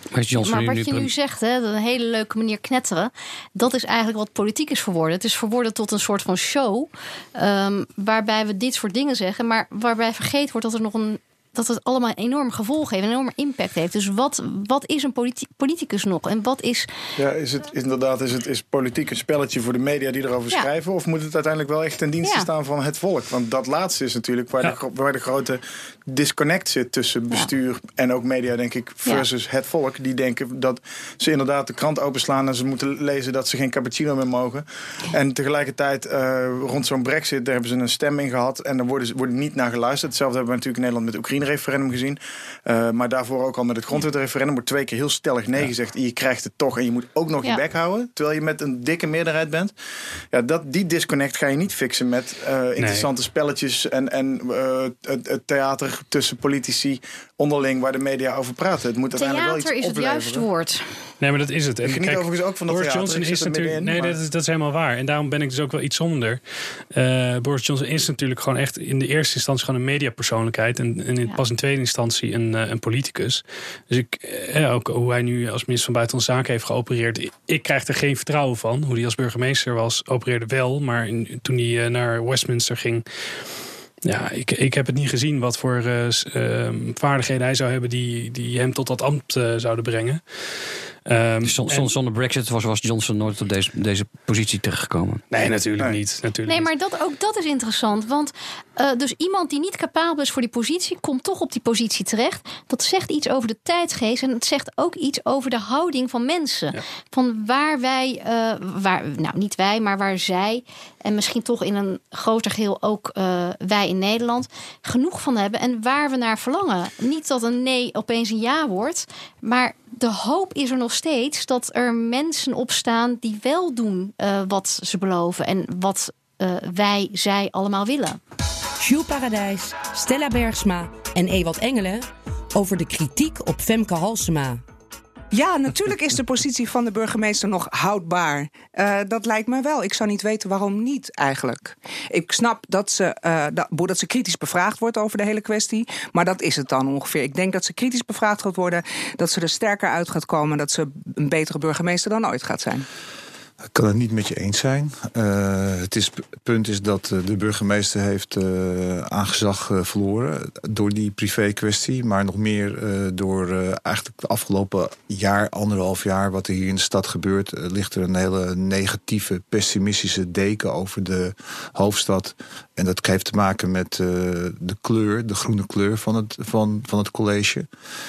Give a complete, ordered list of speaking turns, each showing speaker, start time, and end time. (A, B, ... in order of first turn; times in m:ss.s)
0:00.1-0:01.1 A
0:00.4-0:16.9 B
0:17.2-0:49.7 C
0:22.2-0:22.5 B
0:50.3-1:00.4 C
0:52.8-0:53.1 D
0:59.2-1:00.9 B
1:01.2-1:06.4 D
1:01.8-1:04.2 C
1:06.9-1:23.0 D
1:24.0-1:30.2 D
1:31.1-1:31.9 D
1:31.4-1:35.2 A
1:35.3-1:36.7 D
1:36.5-2:08.2 B
2:08.8-2:14.6 E
2:15.3-2:32.8 F
2:33.7-2:57.7 G